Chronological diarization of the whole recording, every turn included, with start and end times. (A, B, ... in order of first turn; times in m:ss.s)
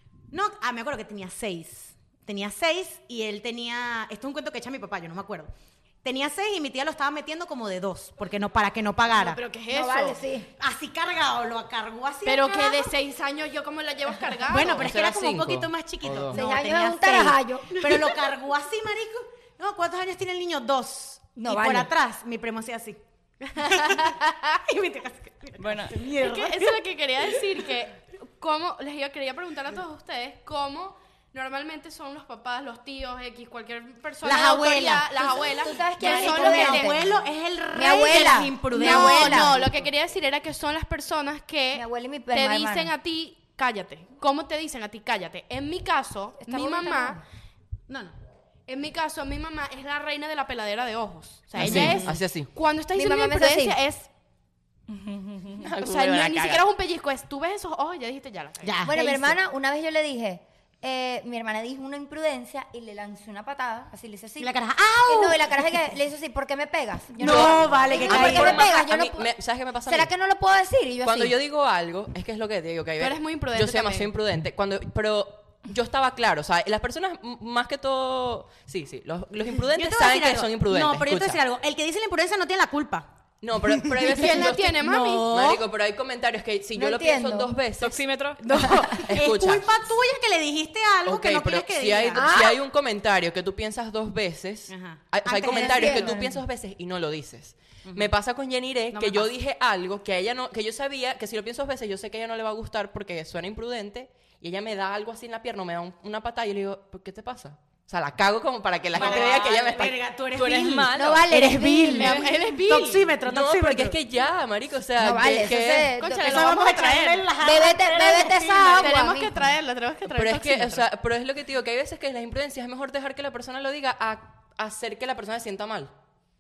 0:00.3-0:05.5 A
0:06.0-0:09.4 A
0:09.1-0:10.3 B
0:09.7-0:10.5 C
0:10.6-0:12.9 A
0:12.2-0:14.9 B
0:14.5-0:26.8 A
0:14.6-0:16.4 D
0:16.3-0:18.0 C
0:21.4-0:21.9 C
0:25.6-0:26.0 E
0:26.2-0:37.0 B
0:34.2-0:35.4 A
0:35.2-0:37.0 C
0:36.0-0:39.8 A
0:37.7-0:39.5 C
0:38.7-0:47.2 B
0:41.7-0:42.9 C
0:46.4-0:47.2 C
0:47.9-0:48.2 A
0:48.7-0:54.1 B
0:51.5-0:52.1 A
0:51.6-0:52.5 D
0:52.9-0:53.8 C
0:54.9-0:55.6 E
0:55.6-0:56.6 D
0:55.8-0:58.8 B
0:58.6-0:59.4 A
0:58.8-1:04.5 C
1:04.4-1:05.7 A
1:05.1-1:09.3 C
1:07.2-1:08.7 A
1:07.2-1:10.1 D
1:09.9-1:11.4 C
1:11.0-1:21.4 D
1:13.0-1:14.1 B
1:19.8-1:23.1 A
1:23.4-1:28.0 D
1:24.1-1:25.3 B
1:24.1-1:25.6 A
1:26.8-1:27.6 C
1:27.8-1:28.4 E
1:28.4-1:32.3 A
1:28.5-1:29.1 C
1:28.9-1:29.7 D
1:31.1-1:50.0 D
1:32.1-1:32.6 C
1:34.7-1:36.2 A
1:35.5-1:36.4 C
1:38.9-1:39.3 A
1:48.9-1:54.0 A
1:49.0-1:49.4 B
1:50.3-1:52.5 E
1:51.0-1:52.3 C
1:51.9-1:53.1 B
1:53.2-1:56.0 D
1:55.0-1:56.6 C
1:56.0-2:00.8 B
1:56.2-1:59.0 A
1:57.4-1:59.6 C
2:00.1-2:05.9 D